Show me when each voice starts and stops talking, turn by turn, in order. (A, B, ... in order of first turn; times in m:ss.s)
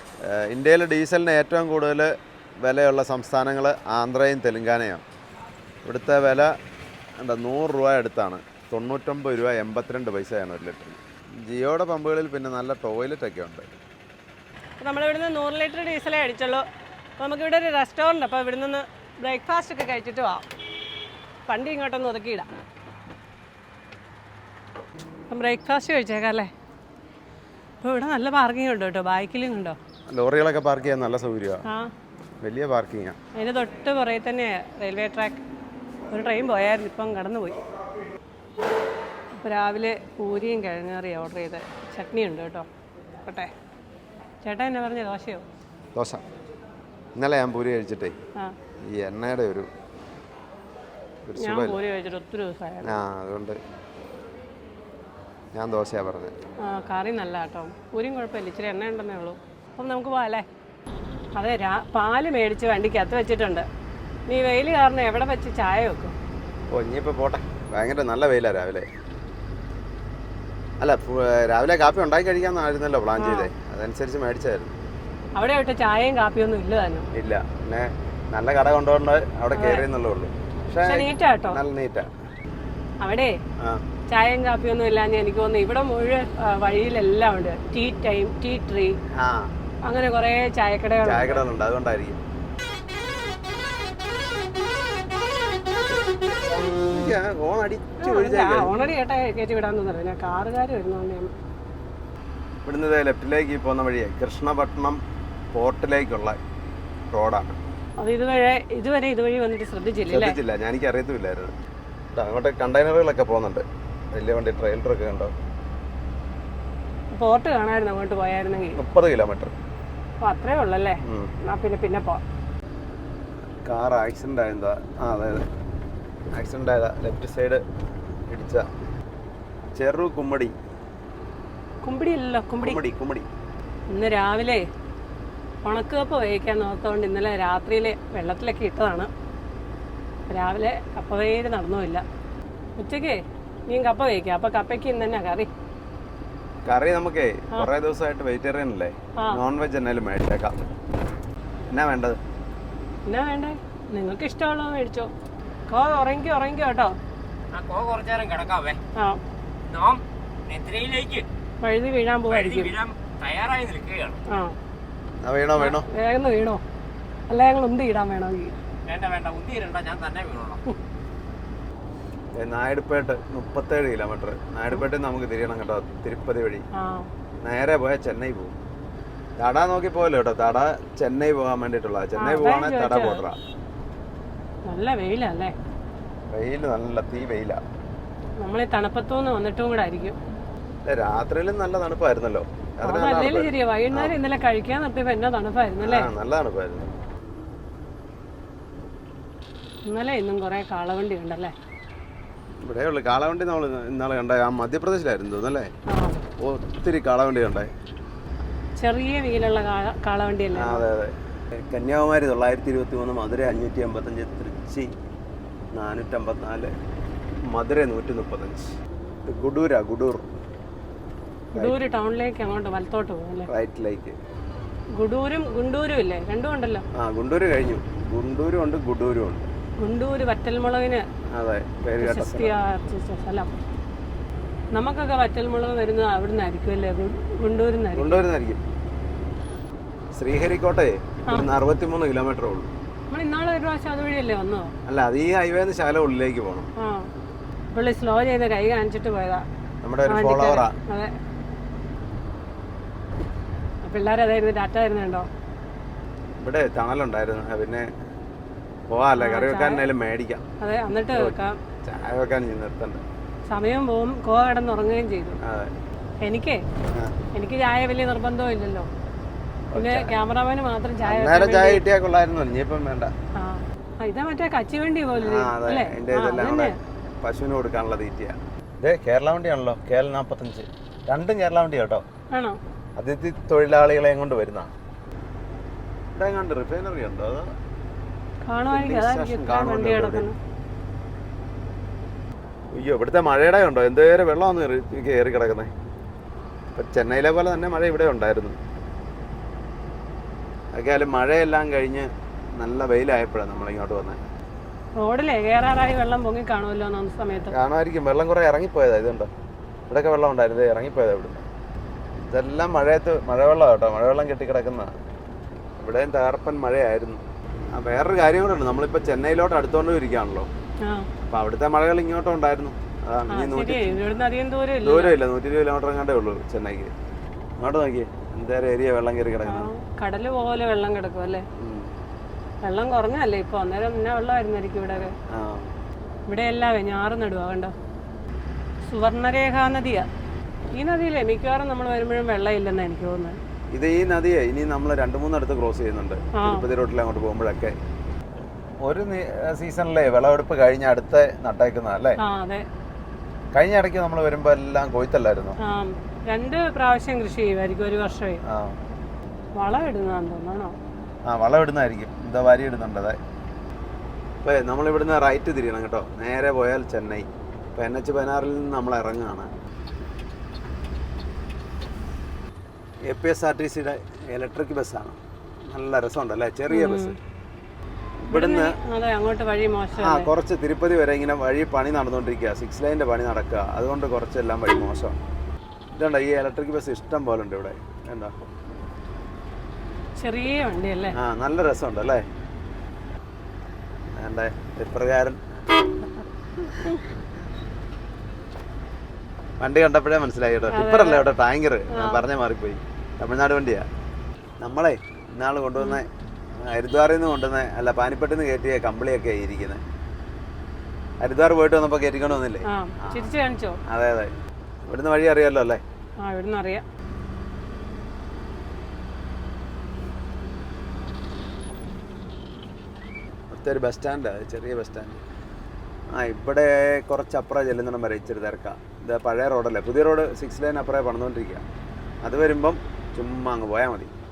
0:00.2-0:05.0 A
0:05.8-0:06.5 A
0:07.2-0:13.7 A
0:14.8-0:16.6 B
0:17.2-0:20.4 B
0:21.5-0:22.5 B
0:25.3-0:26.5 B
0:27.8-0:29.8 B
0:30.1-0:31.6 A
0:32.4-0:33.2 A
0:33.4-0:35.4 B
0:36.1-0:37.6 B
0:39.4-0:42.7 B
0:43.3-0:43.5 B
0:44.4-0:45.4 B
0:46.0-0:46.2 A
0:47.2-0:48.2 A
0:48.9-0:49.7 A
0:51.3-0:51.8 A
0:51.4-0:53.0 B
0:52.8-0:53.6 A
0:55.6-0:56.3 A
0:56.6-1:00.5 B
1:01.4-1:03.7 B
1:04.3-1:06.2 B
1:06.7-1:08.9 A
1:10.8-1:14.8 A
1:13.2-1:13.5 B
1:15.4-1:17.1 B
1:17.1-1:22.1 A
1:19.6-1:19.9 B
1:20.8-1:21.6 B
1:23.0-1:23.4 B
1:24.1-1:29.0 B
1:29.2-1:29.5 A
1:29.9-1:31.4 B
1:31.0-1:32.2 A
1:36.6-1:38.9 A
1:38.0-1:41.3 B
1:42.6-1:45.0 A
1:45.5-1:46.4 A
1:47.1-1:47.6 A
1:48.0-1:50.4 B
1:50.1-1:51.6 A
1:52.1-1:55.3 A
1:57.1-1:58.8 B
1:58.8-1:59.6 A
2:00.2-2:02.2 B
2:01.0-2:01.3 A
2:03.6-2:05.5 A
2:06.3-2:07.6 A
2:08.3-2:08.7 A
2:09.7-2:10.6 A
2:11.8-2:12.8 B
2:12.6-2:13.3 A
2:13.9-2:14.7 B
2:15.6-2:19.1 B
2:20.3-2:22.0 B
2:22.8-2:25.5 B
2:26.7-2:30.6 A
2:31.7-2:32.2 A
2:33.1-2:35.1 B
2:35.7-2:37.0 B
2:37.5-2:38.8 C
2:39.7-2:41.3 C
2:41.6-2:42.7 B
2:42.3-2:44.2 C
2:44.3-2:44.5 B
2:45.2-2:45.9 A
2:45.6-2:46.6 B
2:47.3-2:48.5 B
2:48.9-2:50.6 C
2:52.3-2:56.6 A
2:56.8-2:57.1 B
2:57.4-2:58.6 A
2:59.4-3:03.4 A
3:02.2-3:03.2 B
3:04.7-3:05.5 B
3:06.3-3:07.6 A
3:08.4-3:10.2 B
3:10.9-3:14.2 A
3:12.8-3:16.1 B
3:15.8-3:17.0 A
3:19.9-3:21.5 B
3:22.6-3:25.7 A
3:25.9-3:26.3 B
3:26.4-3:27.7 A
3:28.8-3:30.8 B
3:30.5-3:34.9 A
3:35.8-3:36.7 A
3:37.5-3:40.3 A
3:41.5-3:41.8 A
3:41.6-3:43.5 B
3:43.5-3:44.2 A
3:45.0-3:46.8 B
3:47.0-3:49.5 A
3:49.8-3:51.1 B
3:51.3-3:52.6 A
3:52.0-3:53.5 B
3:54.7-3:58.2 B
3:58.0-3:58.6 A
4:00.1-4:02.7 A
4:03.1-4:04.7 B
4:04.9-4:06.7 A
4:06.8-4:07.1 B
4:07.7-4:09.4 B
4:09.8-4:10.8 A
4:10.1-4:11.1 B
4:13.8-4:15.3 B
4:16.4-4:17.9 A
4:18.9-4:20.4 A
4:19.2-4:19.8 B
4:20.6-4:21.6 B
4:21.0-4:23.0 A
4:23.5-4:25.4 B
4:25.4-4:25.7 A
4:26.2-4:26.6 B
4:26.9-4:27.2 A
4:27.4-4:28.9 B
4:29.7-4:30.1 A
4:29.8-4:31.8 B
4:31.0-4:33.1 A
4:33.4-4:36.8 B
4:35.2-4:42.0 A
4:42.3-4:42.6 B
4:43.0-4:44.7 A
4:46.2-4:47.5 A
4:48.5-4:50.4 B
4:48.7-4:50.3 A
4:52.7-4:55.7 A
4:56.7-4:58.6 A
5:00.7-5:04.2 A
5:05.0-5:07.5 B
5:07.5-5:09.3 A
5:09.9-5:11.4 A
5:12.2-5:15.0 A
5:15.8-5:20.5 A
5:21.3-5:24.0 A
5:23.3-5:25.2 B
5:24.8-5:26.9 A
5:27.6-5:29.7 A
5:29.5-5:31.5 B
5:31.6-5:31.9 A
5:32.6-5:35.1 B
5:35.3-5:35.7 A
5:36.3-5:37.7 B
5:38.8-5:40.1 B
5:40.7-5:43.4 B
5:43.7-5:47.8 A
5:46.4-5:46.6 B
5:48.8-5:52.2 A
5:52.2-5:52.7 B
5:53.5-5:55.6 A
5:55.6-5:58.4 B
5:58.4-5:58.8 A
5:59.6-6:00.8 B
6:01.3-6:03.2 A
6:04.4-6:09.5 A
6:13.1-6:15.2 A
6:15.7-6:17.2 A
6:16.7-6:17.2 B
6:18.2-6:18.8 A
6:18.3-6:20.3 B
6:20.0-6:25.2 A
6:26.0-6:28.4 A
6:30.2-6:31.2 B
6:31.1-6:32.3 A
6:34.2-6:35.6 A
6:39.6-6:43.9 A
6:40.7-6:41.3 B
6:41.9-6:42.2 B
6:44.6-6:46.1 A
6:46.6-6:49.8 A
6:51.2-6:53.3 A
6:52.7-6:53.8 B
6:53.9-6:54.3 A
6:54.9-6:55.8 A
6:56.2-6:56.8 B
7:03.5-7:05.2 A
7:06.1-7:11.6 A
7:12.2-7:14.1 A